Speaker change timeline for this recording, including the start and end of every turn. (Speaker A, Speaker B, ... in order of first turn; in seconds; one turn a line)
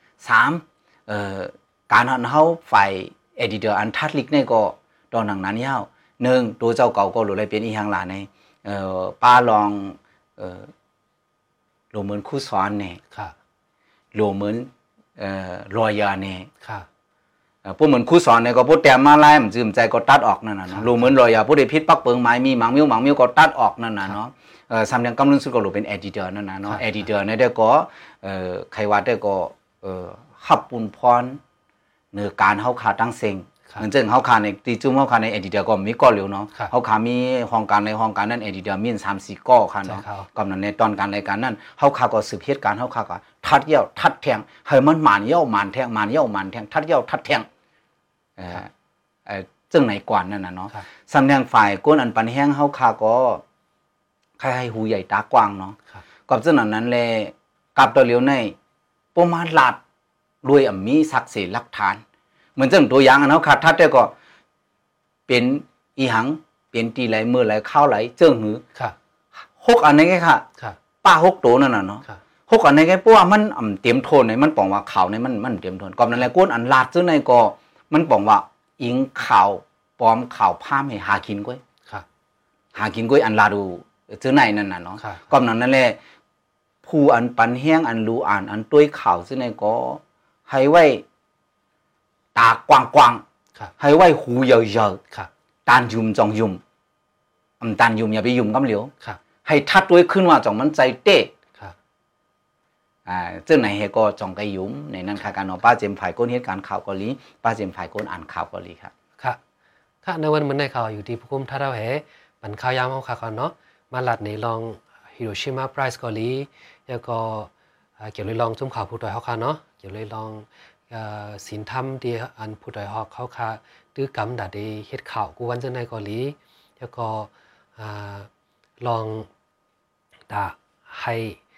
Speaker A: 0.2-10.7
Speaker A: 11.9-13.0
Speaker A: 14.1-16.5
Speaker A: 17.6-31.4
Speaker B: 20.7-21.0
Speaker A: 32.1-47.5
Speaker B: 39.9-40.3
Speaker A: 48.4-48.7
Speaker A: 49.3-53.4
Speaker A: 54.4-58.5
Speaker A: 59.1-59.8
Speaker A: 60.4-62.0
Speaker A: 62.6-64.1
Speaker A: 65.3-68.6
Speaker A: 69.6-70.5
Speaker A: 71.0-81.6
Speaker A: 82.7-86.0
Speaker B: 85.0-85.3
Speaker A: 86.8-91.0
Speaker A: 92.3-93.2
Speaker A: 93.8-95.0
Speaker A: 95.7-96.6
Speaker A: 97.6-98.9
Speaker A: 99.5-101.3
Speaker A: 103.1-108.9
Speaker B: 110.0-128.3
Speaker B: 128.8-129.3
Speaker B: 130.3-131.4